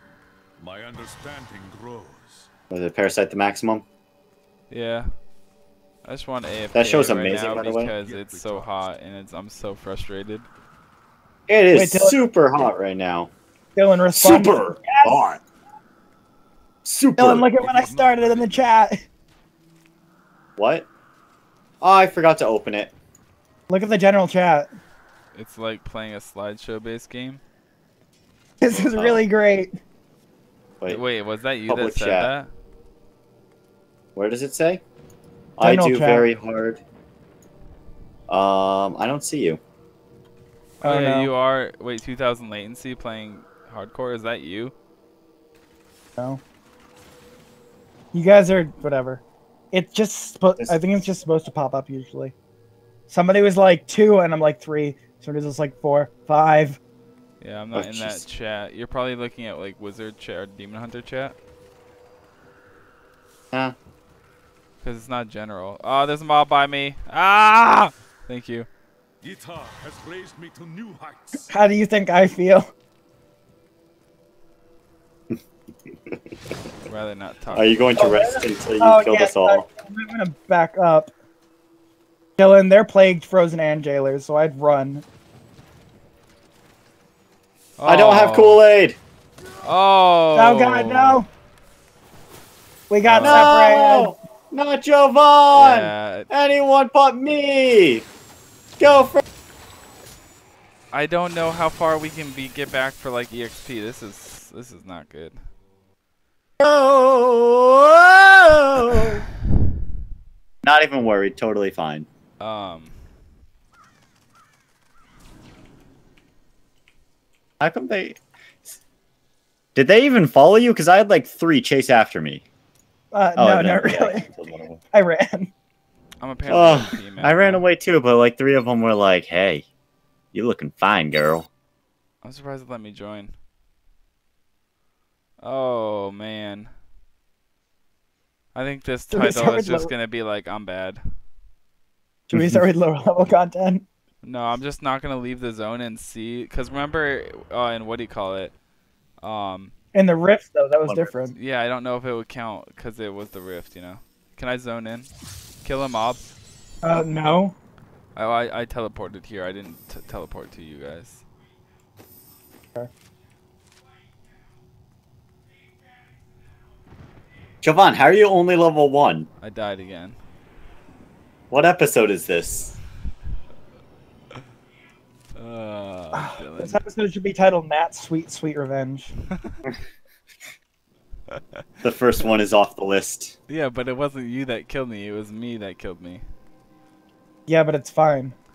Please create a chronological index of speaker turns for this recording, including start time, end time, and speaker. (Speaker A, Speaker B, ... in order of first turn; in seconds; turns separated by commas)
Speaker A: 0.6-2.5, Speaker B: 2.7-3.8, Speaker C: 4.7-5.1, Speaker C: 6.0-10.5, Speaker B: 6.7-7.9, Speaker A: 8.0-8.9, Speaker B: 11.5-13.3, Speaker D: 11.7-12.2, Speaker D: 13.8-15.2, Speaker B: 14.1-15.4, Speaker B: 16.8-17.5, Speaker D: 17.2-19.0, Speaker A: 17.5-18.8, Speaker B: 20.6-20.9, Speaker B: 21.8-22.9, Speaker D: 23.7-24.7, Speaker C: 25.3-27.4, Speaker D: 28.6-29.8, Speaker B: 28.7-29.2, Speaker C: 30.9-32.5, Speaker B: 31.7-32.3, Speaker B: 34.1-34.8, Speaker B: 35.6-36.8, Speaker D: 35.6-36.2, Speaker B: 38.3-39.6, Speaker C: 40.8-44.7, Speaker D: 40.8-41.3, Speaker D: 46.2-46.4, Speaker D: 48.1-52.3, Speaker B: 50.6-51.0, Speaker D: 53.1-56.8, Speaker C: 57.4-61.4, Speaker B: 57.7-58.2, Speaker C: 64.8-68.7, Speaker A: 69.2-71.5, Speaker D: 71.5-72.7, Speaker C: 76.8-78.0, Speaker B: 77.5-79.6, Speaker D: 78.0-81.1, Speaker D: 82.4-85.0, Speaker C: 87.8-88.6, Speaker B: 87.8-89.0, Speaker C: 89.6-91.2, Speaker D: 90.3-91.3, Speaker D: 92.9-94.2, Speaker C: 93.0-93.6, Speaker B: 93.2-98.0, Speaker C: 95.5-96.3, Speaker B: 98.8-99.2, Speaker C: 100.9-105.4, Speaker B: 106.6-109.2, Speaker B: 110.6-112.1, Speaker C: 112.4-113.0, Speaker B: 117.6-118.8, Speaker B: 119.7-122.4, Speaker D: 123.1-124.3, Speaker B: 123.3-124.8, Speaker D: 124.9-125.5, Speaker C: 126.2-127.7, Speaker B: 126.5-129.7, Speaker B: 130.3-131.5, Speaker C: 132.2-133.3, Speaker C: 135.4-136.7, Speaker C: 138.5-141.1, Speaker D: 139.1-139.9, Speaker D: 142.3-143.8, Speaker B: 142.3-142.6, Speaker C: 144.2-148.5, Speaker C: 149.2-149.7, Speaker D: 149.9-151.3, Speaker B: 150.8-151.1, Speaker C: 151.3-155.1, Speaker C: 155.6-156.3, Speaker D: 156.8-157.5, Speaker C: 158.2-161.2, Speaker B: 167.6-169.3, Speaker C: 169.4-170.2, Speaker B: 171.5-172.7, Speaker C: 175.3-176.8, Speaker D: 176.2-179.1, Speaker B: 181.8-183.3, Speaker C: 183.5-186.2, Speaker D: 187.5-188.3